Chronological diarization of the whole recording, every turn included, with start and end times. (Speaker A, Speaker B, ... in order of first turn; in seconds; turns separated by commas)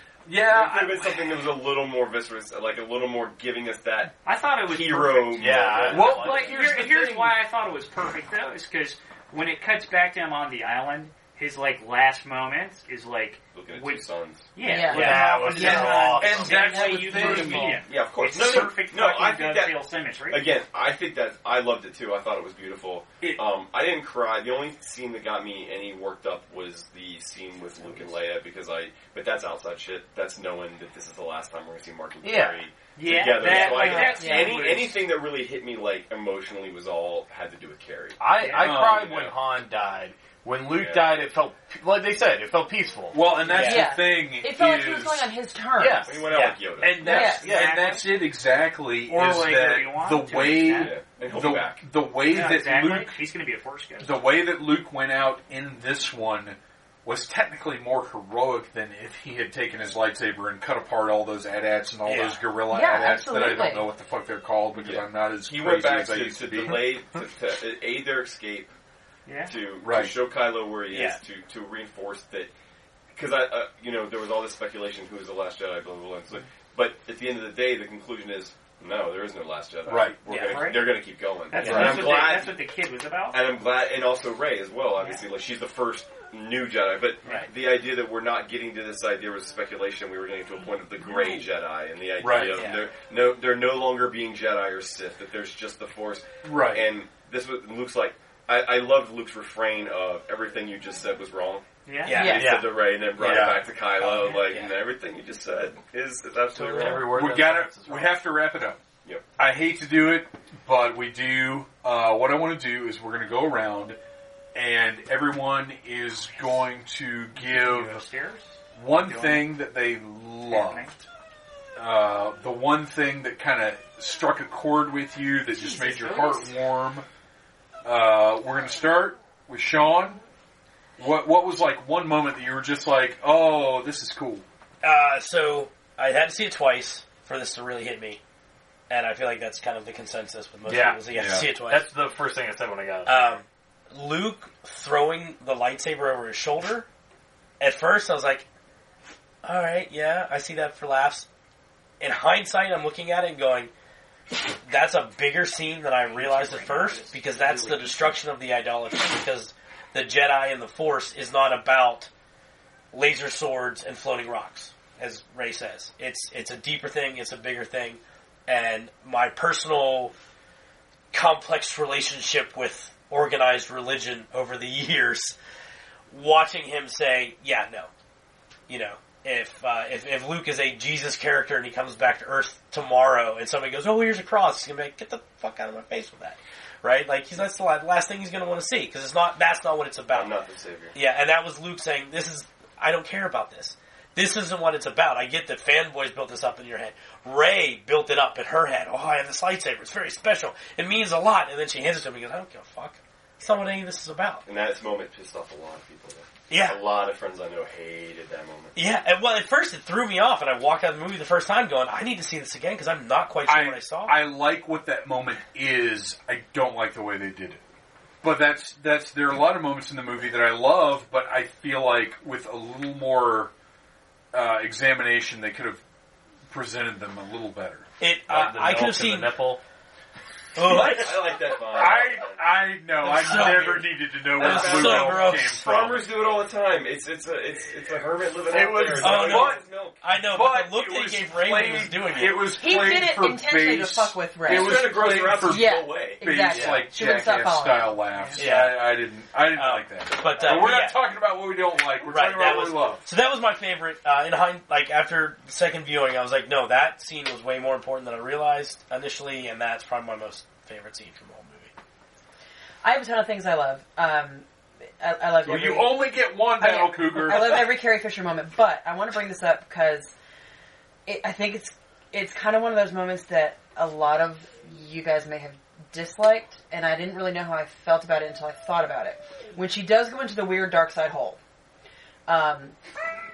Speaker A: 0.3-1.3, Speaker B: 0.5-6.2, Speaker C: 4.2-20.4, Speaker D: 5.4-6.6, Speaker A: 5.9-7.4, Speaker B: 13.5-14.5, Speaker E: 14.6-17.8, Speaker D: 14.9-16.9, Speaker A: 15.5-17.8, Speaker B: 17.9-38.2, Speaker D: 32.2-32.6, Speaker C: 33.0-35.0, Speaker D: 33.5-34.1, Speaker E: 34.0-34.7, Speaker D: 38.2-43.4, Speaker C: 38.4-38.8, Speaker A: 38.6-39.3, Speaker B: 40.7-41.2, Speaker A: 43.1-45.3, Speaker F: 43.4-43.9, Speaker E: 43.5-46.4, Speaker D: 45.8-48.0, Speaker B: 46.1-47.1, Speaker A: 46.8-53.1, Speaker E: 47.0-47.5, Speaker C: 47.4-48.0, Speaker C: 49.1-51.0, Speaker B: 50.7-51.8, Speaker C: 52.3-54.2, Speaker A: 54.0-67.0, Speaker F: 62.0-62.5, Speaker E: 62.6-63.9, Speaker B: 64.8-68.7, Speaker C: 69.3-69.5, Speaker B: 69.5-72.5, Speaker A: 69.8-70.1, Speaker F: 70.9-71.2, Speaker B: 73.1-82.5, Speaker A: 79.9-80.2, Speaker F: 80.3-80.8, Speaker C: 80.4-81.0, Speaker C: 81.5-83.5, Speaker F: 81.5-82.2, Speaker A: 81.7-82.0, Speaker B: 83.3-107.1, Speaker F: 87.2-87.5, Speaker A: 92.2-92.7, Speaker F: 92.5-92.9, Speaker A: 96.4-96.9, Speaker C: 101.9-102.2, Speaker F: 102.0-102.6, Speaker E: 102.2-102.5, Speaker D: 102.3-102.7, Speaker F: 103.2-104.7, Speaker A: 103.2-103.7, Speaker D: 106.5-108.1, Speaker A: 107.0-108.8, Speaker A: 109.4-114.0, Speaker A: 114.5-118.0, Speaker C: 117.3-119.5, Speaker A: 118.8-121.0, Speaker C: 120.5-121.0, Speaker A: 121.8-127.1, Speaker C: 125.5-126.5, Speaker A: 127.8-130.2, Speaker A: 131.0-134.4, Speaker F: 134.8-138.2, Speaker F: 138.9-141.9, Speaker D: 140.7-143.4, Speaker A: 141.1-141.5, Speaker F: 143.1-146.9, Speaker F: 147.6-148.5, Speaker F: 149.4-151.3, Speaker F: 152.0-153.7, Speaker F: 154.3-162.1, Speaker C: 156.1-158.2, Speaker F: 162.9-170.1, Speaker F: 171.1-175.4, Speaker F: 176.1-177.9, Speaker F: 178.7-190.3, Speaker B: 190.1-191.0, Speaker F: 190.9-204.4, Speaker B: 204.5-208.8, Speaker F: 206.5-206.8, Speaker F: 208.8-214.2, Speaker A: 213.5-217.6, Speaker A: 218.2-223.5, Speaker A: 224.3-225.8, Speaker A: 226.5-227.9, Speaker F: 228.0-229.4, Speaker D: 228.3-229.6, Speaker F: 230.6-231.4, Speaker A: 230.6-236.1, Speaker B: 230.7-232.6, Speaker F: 233.0-235.6, Speaker B: 233.2-233.7, Speaker B: 234.3-240.0, Speaker D: 238.5-239.5, Speaker F: 239.0-242.5, Speaker A: 239.1-253.1, Speaker E: 242.5-248.3, Speaker B: 244.5-246.2, Speaker D: 246.5-246.9, Speaker D: 248.4-248.8, Speaker F: 249.5-251.1, Speaker F: 252.0-261.7, Speaker E: 262.8-264.5, Speaker E: 265.0-270.1, Speaker A: 265.4-267.7, Speaker E: 271.1-281.4, Speaker E: 282.3-282.8